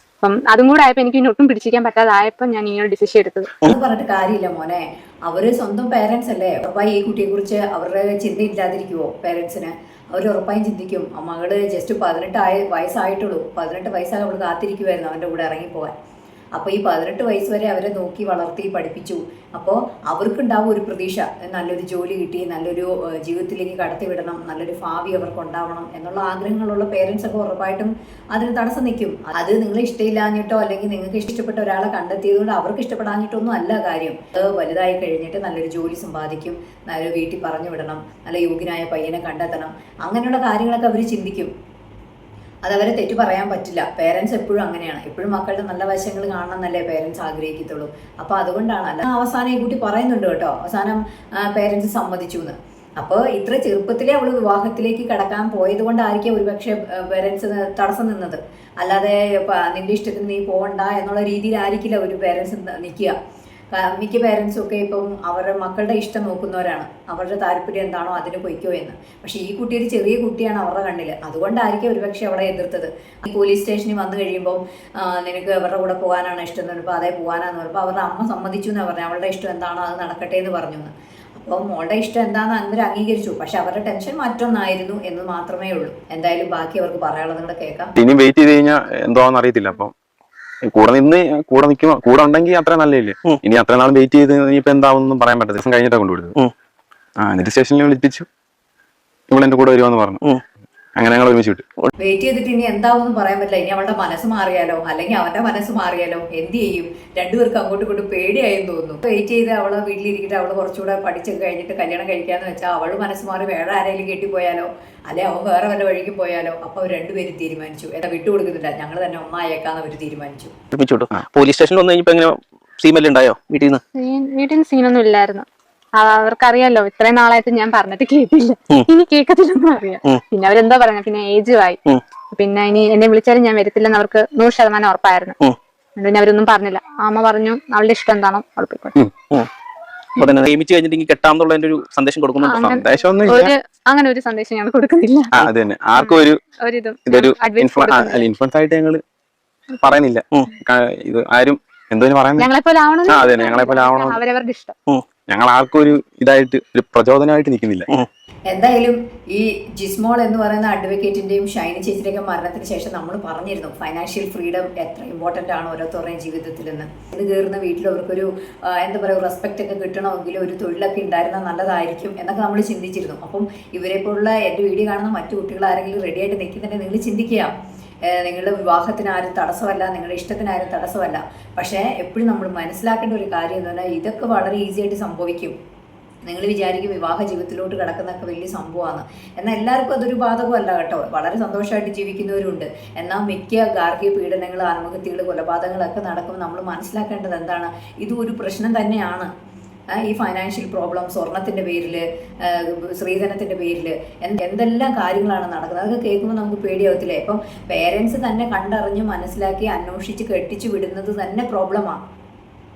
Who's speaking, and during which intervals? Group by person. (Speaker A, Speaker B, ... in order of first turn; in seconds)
Speaker A: 0.2-3.5, 124.0-125.5, 126.0-131.8, 132.3-135.4, 136.0-139.0, 142.4-145.4, 146.0-148.3, 152.4-154.8
Speaker B: 3.6-15.9, 16.6-41.5, 42.6-63.1, 63.7-87.9, 102.0-120.5, 158.5-177.5, 178.1-185.5, 186.2-199.3, 199.9-212.0
Speaker C: 88.0-89.9, 90.7-96.3, 97.2-98.3, 99.3-100.2, 101.0-101.6, 142.6-143.5, 145.3-146.4, 147.1-149.0, 149.8-152.5, 153.1-154.2, 155.3-157.9
Speaker D: 120.7-123.8, 140.2-142.8